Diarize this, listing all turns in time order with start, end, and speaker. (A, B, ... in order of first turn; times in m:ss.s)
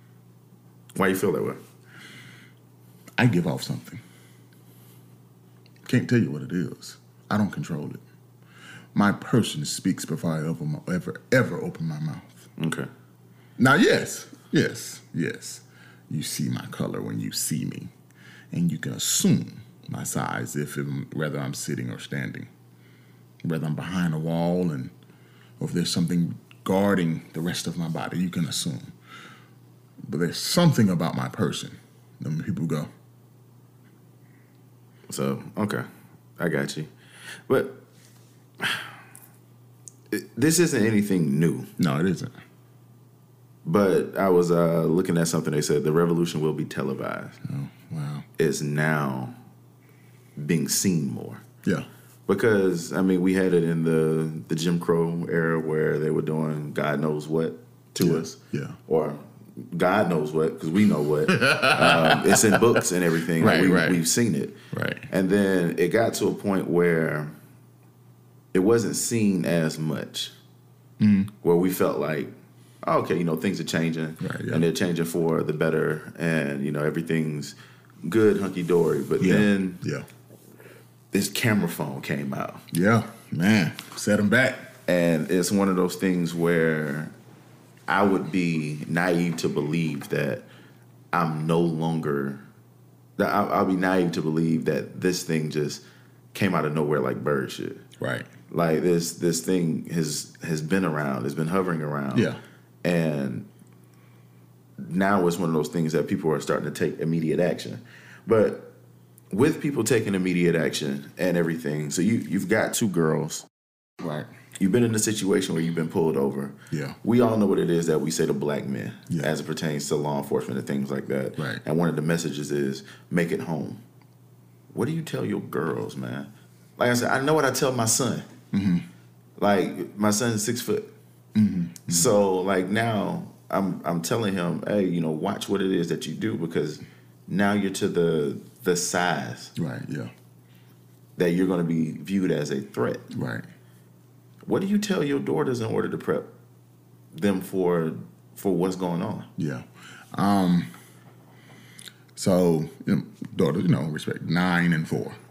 0:01.0-0:01.6 A
0:03.2-0:04.0 B
0:05.8-0:08.0 B
0:08.9-0:12.4 B
0:12.6-0:12.9 A
0:13.6-0:17.9 B
0:18.5-0:22.5 B
0:23.4-0:24.9 B
0:25.6-0:28.9 B
0:30.0-0:32.9 B
0:35.1-0:35.8 A
0:36.4-0:36.9 A
0:37.5-0:37.8 A
0:38.6-0:38.9 A
0:40.1-0:41.7 A
0:41.8-0:42.3 B
0:43.6-0:47.4 A
0:47.4-0:48.2 B
0:48.4-0:49.3 A
0:50.4-0:51.4 A
0:52.3-1:04.6 A
0:58.0-0:58.8 B
1:01.3-1:02.8 B
1:03.4-1:04.0 B
1:04.7-1:05.1 B
1:05.1-1:07.3 A
1:08.5-1:10.3 A
1:11.0-1:11.3 B
1:11.4-1:19.8 A
1:14.2-1:14.6 B
1:19.2-1:20.0 B
1:21.1-1:22.6 A
1:22.7-1:24.7 B
1:24.8-1:27.1 A
1:27.9-1:30.4 A
1:31.1-1:32.4 A
1:33.2-1:35.8 A
1:36.3-1:37.8 A
1:38.0-1:38.3 B
1:38.5-1:42.3 A
1:42.1-1:42.4 B
1:42.8-1:43.5 A
1:44.8-1:48.7 A
1:49.3-1:53.4 A
1:54.0-1:54.3 B
1:54.6-2:03.8 A
1:56.7-1:57.0 B
2:01.4-2:01.6 B
2:04.7-2:08.3 A
2:08.5-2:08.8 B
2:09.4-2:10.8 A
2:11.3-2:12.1 B
2:11.9-2:19.5 A
2:19.6-2:20.1 B
2:21.2-2:23.0 A
2:23.1-2:23.4 B
2:24.4-2:26.3 A
2:27.1-2:29.3 A
2:29.4-2:30.7 B
2:32.2-2:35.2 B